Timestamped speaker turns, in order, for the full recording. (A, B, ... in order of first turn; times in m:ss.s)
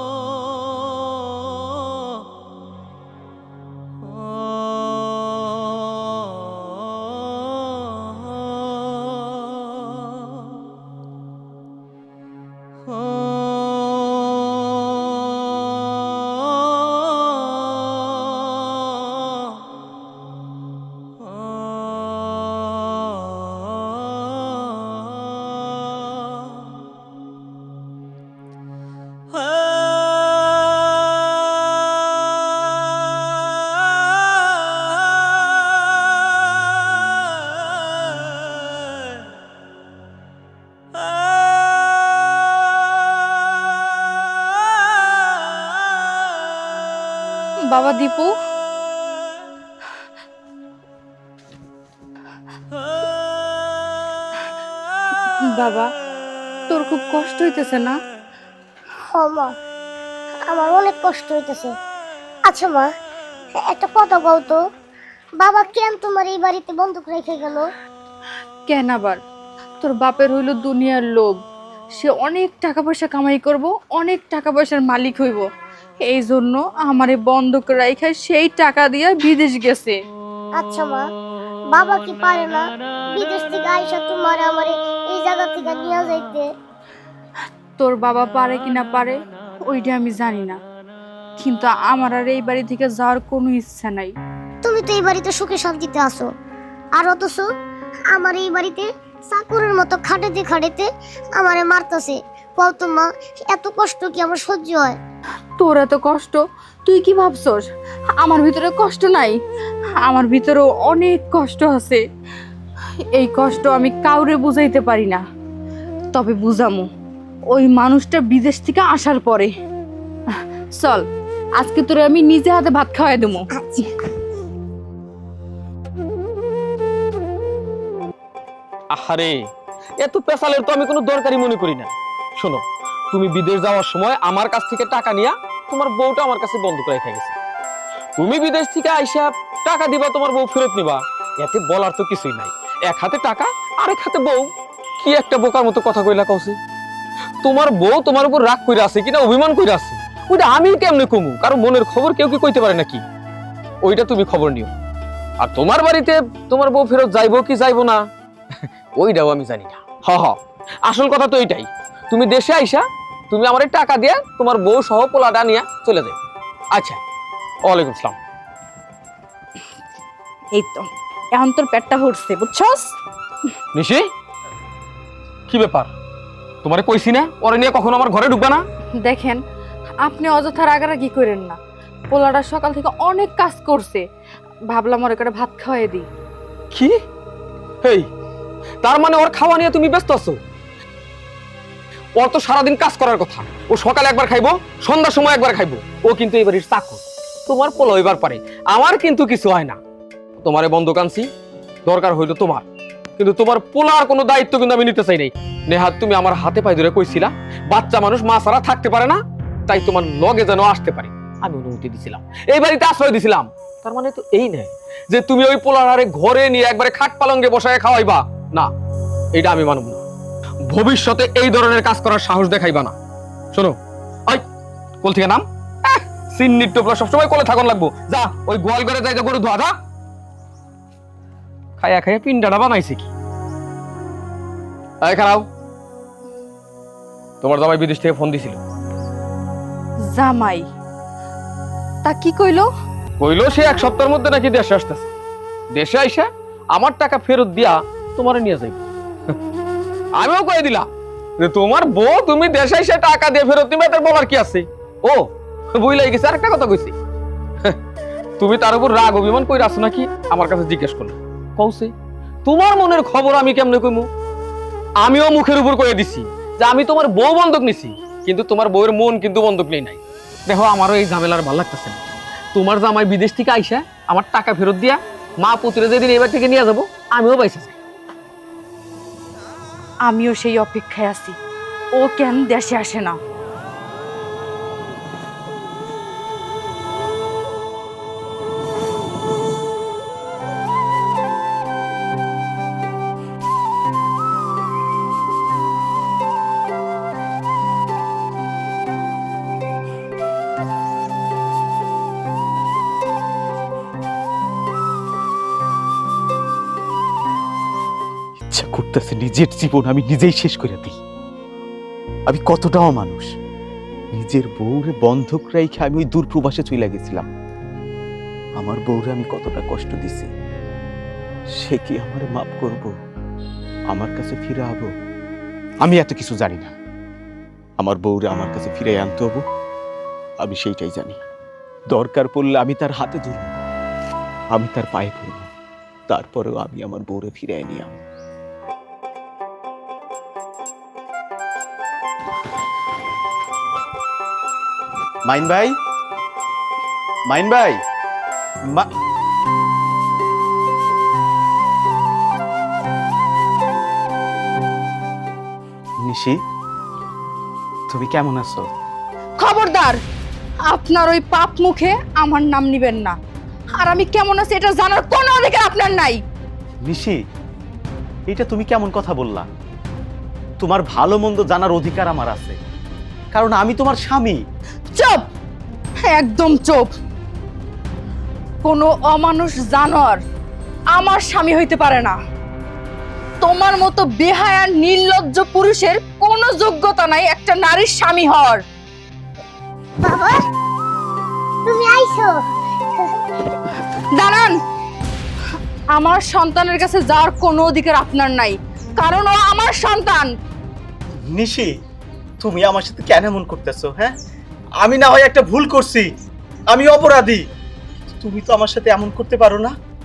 0:47.6-0:48.4 A
0:55.4-0:55.9 A
0:56.7-0:58.0 A
0:59.1-0:59.5 B
1:00.5-1:01.7 B
1:02.4-1:02.9 B
1:03.6-1:04.6 B
1:05.4-1:07.7 B
1:08.7-1:09.2 A
1:09.8-1:11.4 A
1:12.0-1:15.5 A
1:16.0-1:20.0 A
1:20.6-1:21.0 B
1:21.7-1:26.5 B
1:27.8-1:30.6 A
1:31.4-1:34.1 A
1:34.6-1:36.3 B
1:37.0-1:37.5 B
1:38.1-1:45.0 B
1:45.6-1:47.7 A
1:48.2-1:49.4 A
1:50.0-1:52.0 A
1:53.0-1:55.2 A
1:56.1-1:56.9 A
1:57.5-1:59.5 A
2:00.4-2:01.0 A
2:01.6-2:03.9 A
2:08.9-2:09.4 C
2:10.0-2:17.4 C
2:18.2-2:24.5 C
2:25.0-2:26.6 C
2:27.4-2:33.0 C
2:33.8-2:34.7 C
2:35.4-2:46.2 C
2:46.7-2:47.0 C
2:47.6-2:48.2 C
2:50.5-2:53.0 A
2:53.7-2:54.1 C
2:55.5-2:55.9 C
2:56.6-2:58.6 C
2:59.0-2:59.4 A
3:00.0-3:01.6 A
3:02.1-3:04.0 A
3:04.7-3:06.1 A
3:06.7-3:07.0 C
3:07.8-3:08.1 C
3:08.8-3:10.4 C
3:12.2-3:19.8 C
3:20.4-3:21.3 C
3:21.8-3:22.6 C
3:23.2-3:38.7 C
3:39.3-3:40.0 C
3:40.7-3:43.0 C
3:43.5-3:44.4 C
3:45.0-3:49.8 C
3:51.8-3:53.1 C
3:55.0-3:55.5 C
3:57.4-3:58.6 C
4:00.1-4:00.7 A
4:02.0-4:02.7 A
4:03.2-4:05.1 C
4:05.7-4:08.8 C
4:10.2-4:10.9 C
4:11.4-4:17.0 C
4:18.4-4:21.9 C
4:22.4-4:24.1 C
4:25.0-4:32.0 C
4:32.5-4:37.8 C
4:40.0-4:41.4 A
4:42.0-4:43.2 A
5:08.5-5:11.0 D
5:12.3-5:13.3 D
5:14.2-5:17.3 D
5:18.6-5:20.3 D
5:21.6-5:22.9 D
5:23.9-5:24.9 D
5:25.8-5:26.7 D
5:27.8-5:29.4 D
5:30.4-5:31.2 D
5:31.9-5:33.5 D
5:34.5-5:35.5 D
5:36.1-5:38.0 D
5:45.2-5:45.8 D
5:47.3-5:47.8 D
5:56.0-5:56.4 D
5:57.9-5:58.7 D
5:59.4-6:00.0 A
6:00.7-6:03.2 A
6:03.8-6:06.2 A
6:06.9-6:07.2 D
6:08.3-6:09.5 D
6:10.6-6:12.6 D
6:13.3-6:14.4 D
6:14.9-6:15.2 A
6:16.0-6:16.9 A
6:18.6-6:20.2 A
6:21.0-6:22.2 A
6:23.4-6:28.6 A
6:30.0-6:30.4 B
6:31.6-6:32.4 B
6:33.0-6:33.6 B
6:34.1-6:34.6 A
6:36.0-6:40.3 A
6:41.3-6:41.7 D
6:42.4-6:44.2 D
6:44.8-6:46.1 D
6:46.7-6:47.4 D
6:48.1-6:49.7 D